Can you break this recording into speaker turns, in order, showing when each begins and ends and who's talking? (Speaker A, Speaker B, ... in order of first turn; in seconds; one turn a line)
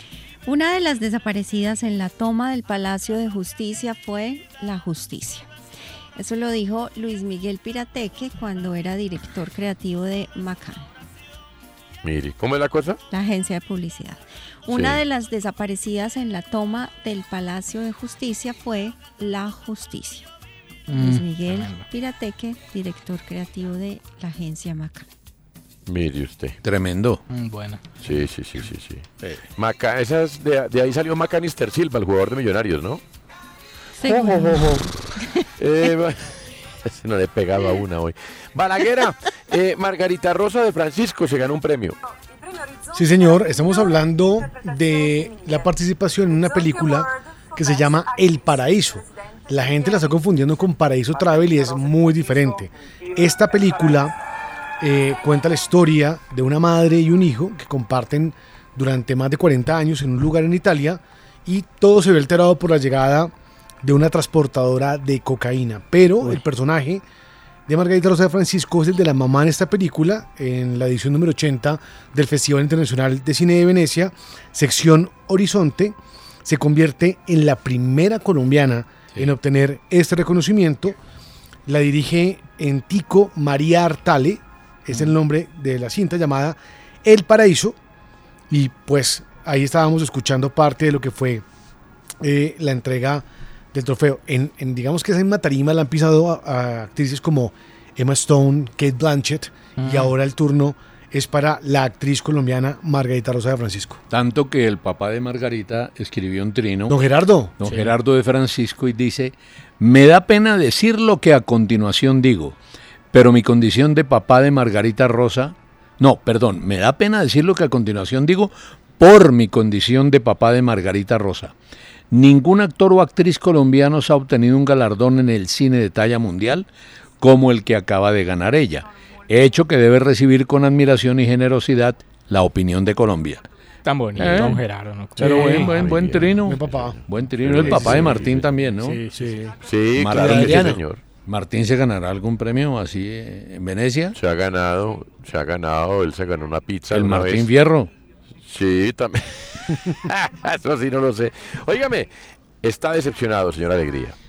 Speaker A: 0.5-5.5
Speaker A: 6.2-10.9
Speaker B: 12.0-13.0
Speaker A: 13.1-20.3
Speaker B: 14.7-15.0
Speaker C: 20.9-21.2
Speaker A: 20.9-25.1
Speaker D: 21.5-21.9
Speaker B: 25.9-26.6
Speaker C: 26.6-27.2
Speaker D: 27.3-27.8
Speaker B: 28.0-33.0
Speaker A: 34.0-35.4
Speaker B: 35.6-36.3
Speaker B: 36.9-42.0
Speaker E: 42.9-54.1
Speaker E: 54.8-63.3
Speaker E: 63.8-67.0
Speaker E: 67.7-81.0
Speaker E: 81.7-87.8
Speaker E: 88.5-91.4
Speaker E: 92.2-104.0
Speaker D: 99.8-100.1
Speaker C: 104.1-107.0
Speaker E: 106.9-107.6
Speaker C: 107.6-112.6
Speaker D: 107.6-107.9
Speaker C: 113.1-121.5
Speaker C: 122.1-126.7
Speaker C: 127.2-133.4
Speaker D: 133.8-135.8
Speaker C: 134.2-134.6
Speaker C: 135.2-139.1
Speaker B: 135.8-136.3
Speaker E: 136.4-137.0
Speaker B: 137.4-138.5
Speaker E: 137.6-138.2
Speaker D: 138.8-139.4
Speaker E: 139.2-139.5
Speaker B: 139.6-141.0
Speaker C: 139.9-144.2
Speaker E: 140.1-140.8
Speaker B: 144.2-147.5
Speaker C: 146.9-147.9
Speaker B: 148.4-152.1
Speaker B: 152.6-154.2